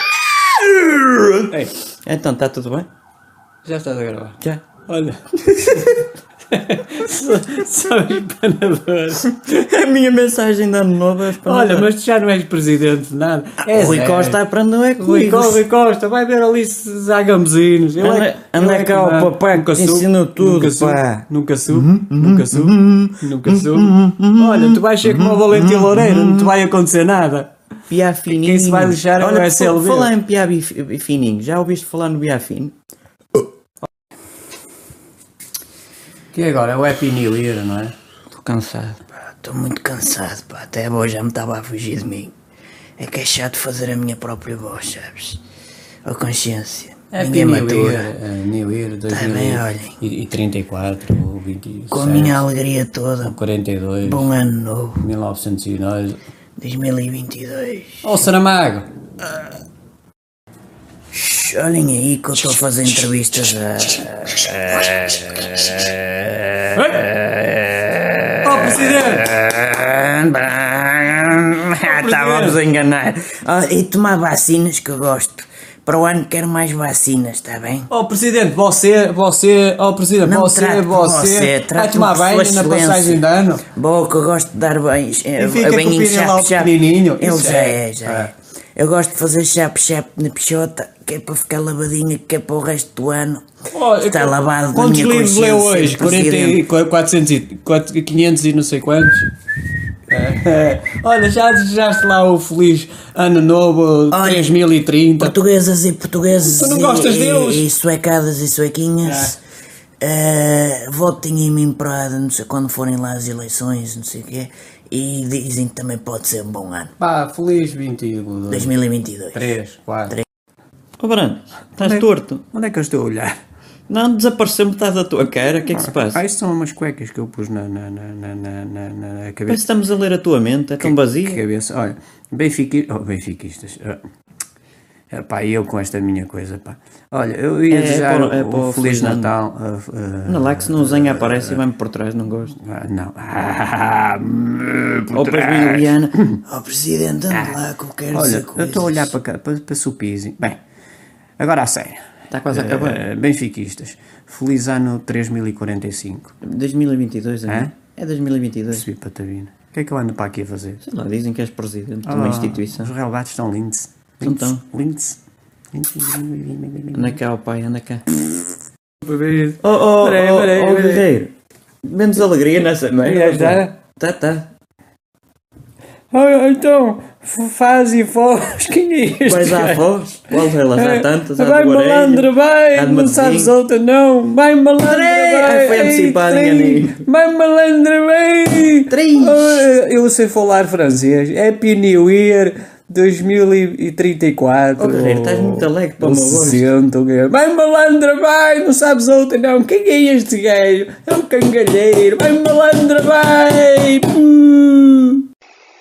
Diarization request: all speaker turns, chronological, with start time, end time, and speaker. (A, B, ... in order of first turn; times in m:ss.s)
0:00.6-0:01.4 A
0:02.0-0:02.9 A
0:03.6-0:09.5 B
0:09.5-0:11.9 A
0:11.3-0:14.4 B
0:13.7-0:15.6 A
0:15.0-0:27.5 B
0:18.0-0:21.0 A
0:21.7-0:22.7 C
0:22.2-0:22.6 A
0:25.0-0:25.6 C
0:25.7-0:26.1 A
0:27.9-0:32.7 A
0:28.3-0:30.1 B
0:36.3-0:37.9 B
0:38.3-0:39.0 A
0:39.2-0:42.3 C
0:43.0-0:45.4 C
0:46.0-0:48.1 C
0:47.1-0:52.4 B
0:49.1-0:50.0 C
0:51.9-0:53.4 C
0:53.2-0:54.3 B
0:54.0-0:55.0 C
0:55.0-0:56.2 B
0:56.6-0:58.2 C
0:58.0-0:58.9 B
1:01.1-1:17.9 C
1:06.7-1:07.1 B
1:08.4-1:09.3 B
1:11.8-1:12.6 B
1:17.9-1:23.6 B
1:20.2-1:33.4 C
1:25.4-1:28.3 B
1:33.7-1:39.3 B
1:34.0-1:36.6 C
1:40.1-1:45.3 B
1:44.1-1:44.6 C
1:45.2-1:49.4 C
1:46.4-1:47.6 B
1:49.0-1:49.3 B
1:50.0-1:56.9 C
1:57.0-1:58.7 B
1:58.5-1:59.5 C
1:59.3-2:00.2 B
2:01.0-2:02.4 A
2:01.8-2:03.4 B
2:03.9-2:06.2 A
2:05.6-2:09.6 B
2:09.5-2:11.4 A
2:10.8-2:14.0 B
2:15.1-2:21.6 B
2:17.7-2:19.3 A
2:20.3-2:22.5 A
2:22.4-2:26.4 B
2:25.1-2:26.1 A
2:26.4-2:29.1 C
2:27.3-2:27.6 B
2:28.1-2:30.6 B
2:31.4-2:36.3 B
2:32.3-2:33.0 A
2:36.4-2:38.8 A
2:37.5-2:37.7 B
2:38.7-2:40.8 B
2:40.8-2:42.9 A
2:42.0-2:45.2 B
2:44.2-2:44.6 A
2:45.7-2:47.2 B
2:46.9-2:48.0 A
2:49.0-2:51.1 B
2:49.6-2:51.3 A
2:51.8-2:54.5 A
2:53.0-2:53.7 B
2:56.1-3:25.2 B
2:59.3-3:03.5 A
3:04.8-3:07.0 A
3:08.9-3:09.6 A
3:14.8-3:16.7 A